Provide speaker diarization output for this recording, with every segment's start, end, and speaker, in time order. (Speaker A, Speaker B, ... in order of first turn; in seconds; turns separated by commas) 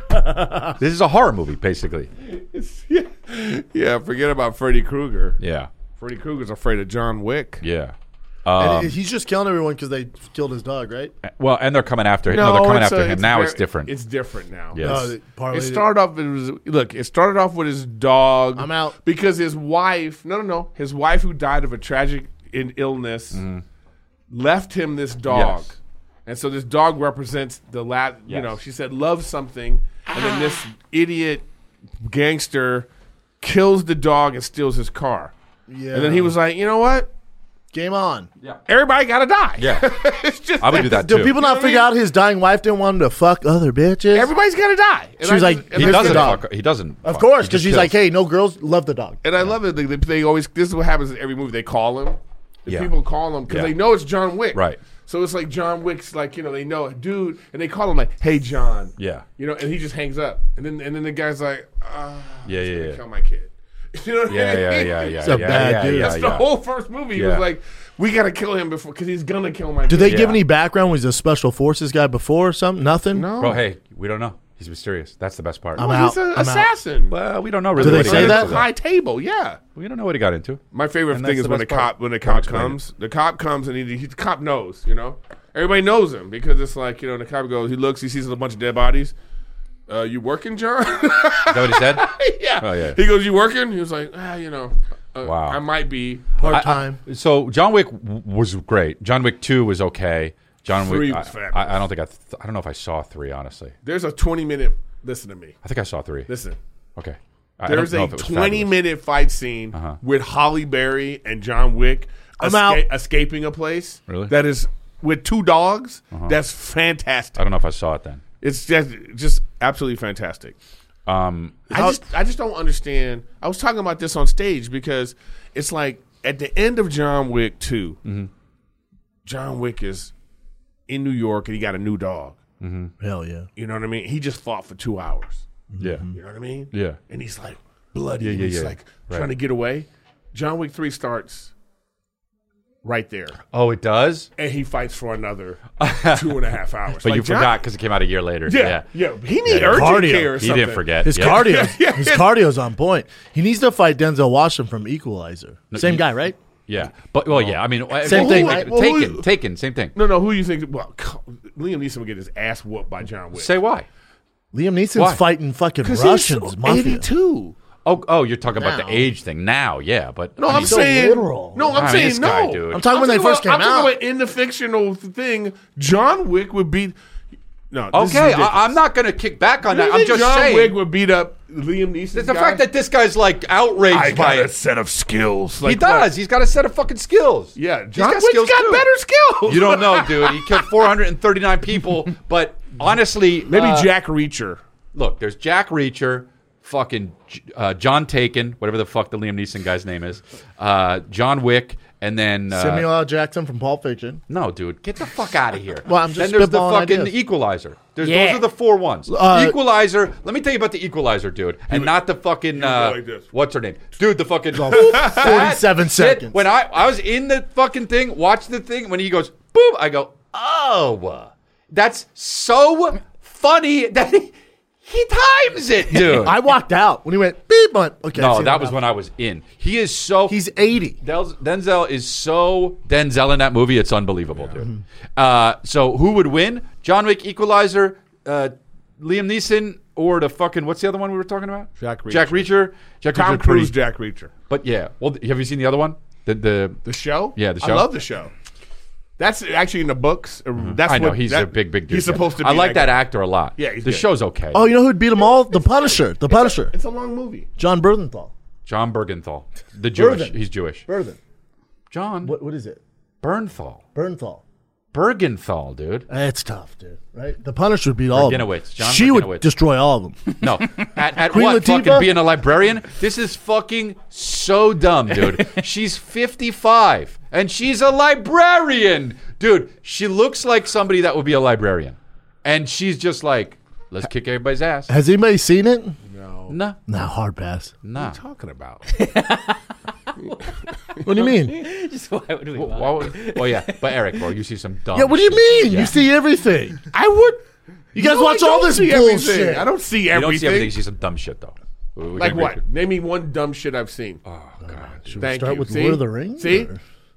Speaker A: 0.1-0.8, Speaker B: 0.8-2.1, Speaker C: 2.3-5.4, Speaker B: 5.4-5.7, Speaker C: 6.0-7.6, Speaker B: 7.6-8.9, Speaker A: 8.6-11.1, Speaker B: 11.2-13.9, Speaker C: 12.3-14.8, Speaker B: 14.7-15.1, Speaker A: 14.8-15.9, Speaker C: 15.5-23.4, Speaker A: 18.5-18.9, Speaker B: 23.3-23.6, Speaker C: 24.3-31.4, Speaker B: 25.3-25.7, Speaker B: 28.3-28.5, Speaker C: 32.0-32.9, Speaker C: 33.4-35.3, Speaker A: 35.7-36.3, Speaker C: 35.9-37.1, Speaker A: 37.7-38.3, Speaker C: 38.7-41.9, Speaker B: 39.6-40.0, Speaker B: 40.6-41.4, Speaker A: 40.7-44.3, Speaker C: 44.1-46.4, Speaker A: 45.2-46.4, Speaker B: 45.7-47.9, Speaker A: 47.0-49.2, Speaker C: 49.2-70.4, Speaker B: 52.7-52.9, Speaker B: 53.5-53.7, Speaker B: 54.5-54.8, Speaker B: 59.0-59.2, Speaker B: 62.4-63.0, Speaker B: 64.3-66.5, Speaker A: 65.2-66.2, Speaker B: 67.1-67.4, Speaker A: 69.9-73.3, Speaker B: 70.1-70.4, Speaker C: 73.1-73.6, Speaker B: 73.4-75.9, Speaker A: 75.8-76.7, Speaker C: 75.8-77.2, Speaker B: 77.1-78.7, Speaker C: 77.7-79.6, Speaker A: 77.8-78.6, Speaker B: 79.8-82.8, Speaker C: 80.7-89.1, Speaker C: 89.9-96.5, Speaker B: 91.5-93.0, Speaker B: 95.2-95.6, Speaker A: 96.3-97.0, Speaker B: 96.4-103.7, Speaker C: 100.7-101.9, Speaker C: 103.8-105.6, Speaker B: 105.6-106.3, Speaker C: 106.3-106.6, Speaker B: 107.0-108.7, Speaker C: 107.6-117.4, Speaker B: 109.7-110.0, Speaker A: 112.4-112.8, Speaker B: 114.1-114.3, Speaker B: 117.4-118.2, Speaker C: 118.4-120.5, Speaker B: 121.0-121.7, Speaker C: 121.7-128.0, Speaker A: 121.7-122.0, Speaker B: 128.0-128.3, Speaker C: 129.2-130.1, Speaker C: 130.9-132.4, Speaker B: 132.6-132.9, Speaker A: 133.0-133.5, Speaker C: 133.6-135.4, Speaker A: 135.7-136.1, Speaker B: 135.8-136.1, Speaker C: 136.1-141.5, Speaker B: 136.7-137.0, Speaker B: 138.2-139.3, Speaker C: 142.8-143.4, Speaker B: 143.5-144.3, Speaker C: 144.4-147.6, Speaker B: 145.8-146.3, Speaker B: 147.0-148.8, Speaker C: 148.5-152.3, Speaker B: 149.4-151.6, Speaker A: 149.6-150.4, Speaker A: 151.0-156.3, Speaker B: 155.7-156.1, Speaker B: 156.7-159.9, Speaker C: 157.3-159.3, Speaker A: 158.0-158.7, Speaker C: 159.9-163.6, Speaker B: 163.3-163.9, Speaker A: 164.5-167.1, Speaker B: 164.9-165.2, Speaker C: 165.8-167.5, Speaker B: 167.8-171.1, Speaker A: 168.6-169.1, Speaker C: 170.4-176.9, Speaker A: 170.5-172.0, Speaker B: 171.7-172.9, Speaker A: 172.7-174.0, Speaker C: 177.7-178.8, Speaker B: 177.9-180.8, Speaker C: 179.6-182.7, Speaker B: 182.1-184.5, Speaker C: 183.8-186.1, Speaker B: 185.6-188.9, Speaker C: 187.6-190.7, Speaker B: 189.4-193.9, Speaker C: 193.5-194.6, Speaker B: 194.9-202.9, Speaker A: 202.5-204.2, Speaker B: 204.3-226.4, Speaker A: 205.8-207.1, Speaker D: 208.0-208.4, Speaker A: 209.1-209.6, Speaker C: 211.7-212.0, Speaker C: 212.5-213.3, Speaker A: 214.5-216.4, Speaker C: 214.7-215.4, Speaker A: 225.9-228.8, Speaker B: 228.1-230.4, Speaker A: 230.3-231.0, Speaker B: 231.0-243.7, Speaker C: 241.8-242.5, Speaker C: 243.1-244.3, Speaker B: 244.5-246.8, Speaker C: 246.8-248.3, Speaker B: 247.3-247.9, Speaker C: 249.2-253.0, Speaker B: 250.6-254.7, Speaker C: 253.6-254.1, Speaker A: 254.5-256.7, Speaker C: 255.5-257.5, Speaker A: 257.6-258.3, Speaker B: 258.6-260.9, Speaker A: 259.9-261.2, Speaker B: 261.9-262.3, Speaker A: 262.2-262.8, Speaker B: 263.2-263.8, Speaker A: 263.9-264.4, Speaker B: 264.9-266.1, Speaker A: 266.1-270.2, Speaker B: 268.1-269.5, Speaker B: 270.4-284.9, Speaker A: 271.2-272.1, Speaker A: 284.9-286.0, Speaker C: 286.1-286.6, Speaker B: 286.5-286.8, Speaker A: 286.9-287.7, Speaker B: 287.8-288.2, Speaker C: 287.9-288.8, Speaker D: 288.9-289.6, Speaker D: 290.1-290.4, Speaker A: 291.0-291.6, Speaker D: 291.1-294.2, Speaker B: 292.5-295.9, Speaker A: 294.9-296.8, Speaker C: 296.9-297.4, Speaker A: 297.9-299.7, Speaker C: 297.9-300.8, Speaker B: 300.1-302.6, Speaker C: 302.2-304.2, Speaker B: 304.2-305.2, Speaker A: 304.6-306.8, Speaker C: 305.2-306.7